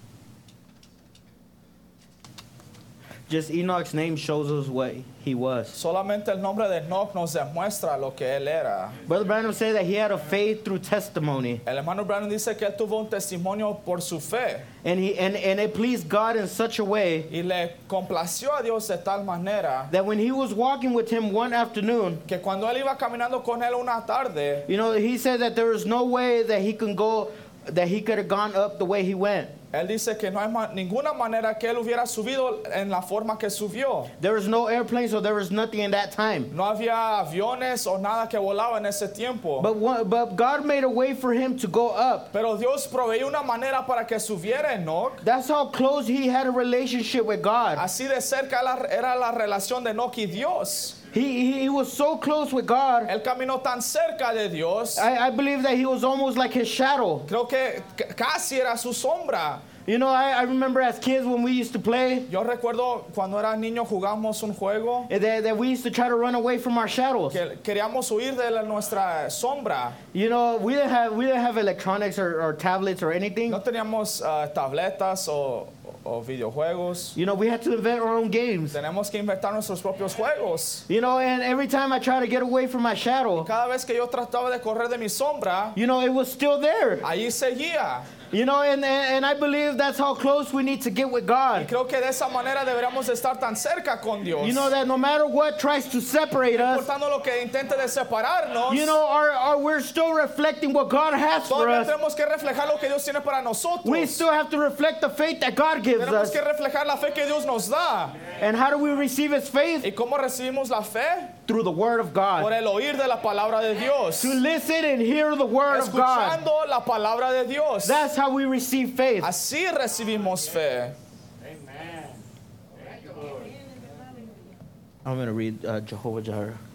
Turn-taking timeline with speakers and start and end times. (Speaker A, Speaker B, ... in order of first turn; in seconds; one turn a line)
Speaker A: 3.3-5.8
Speaker B: 5.7-9.0
Speaker A: 9.1-11.6
Speaker B: 11.7-14.7
Speaker A: 14.8-17.3
Speaker B: 17.3-19.9
Speaker A: 19.9-22.2
Speaker B: 22.3-24.7
Speaker A: 24.6-29.5
Speaker B: 29.7-34.1
Speaker A: 34.2-36.5
Speaker B: 36.5-39.7
Speaker A: 39.6-42.3
Speaker B: 42.3-45.2
Speaker A: 45.2-47.9
Speaker B: 47.8-51.0
Speaker A: 51.1-53.1
Speaker B: 53.1-55.1
Speaker A: 54.9-57.3
Speaker B: 57.3-59.7
Speaker A: 59.8-62.3
Speaker B: 62.3-65.1
Speaker A: 65.1-67.4
Speaker B: 67.3-70.0
Speaker A: 70.1-73.6
Speaker B: 73.5-77.2
Speaker A: 77.1-78.8
Speaker B: 78.7-80.8
Speaker A: 80.9-83.5
Speaker B: 83.4-85.8
Speaker A: 85.7-87.1
Speaker B: 87.0-88.1
Speaker A: 88.2-91.7
Speaker B: 91.5-94.7
Speaker A: 94.4-96.9
Speaker B: 96.5-99.0
Speaker A: 98.7-101.9
Speaker B: 101.5-104.2
Speaker A: 103.8-106.4
Speaker B: 106.0-108.3
Speaker A: 108.4-109.9
Speaker B: 109.8-111.3
Speaker A: 111.5-112.5
Speaker B: 112.4-114.4
Speaker A: 114.2-116.4
Speaker B: 115.7-118.0
Speaker A: 117.8-119.3
Speaker B: 119.2-121.0
Speaker A: 125.0-126.6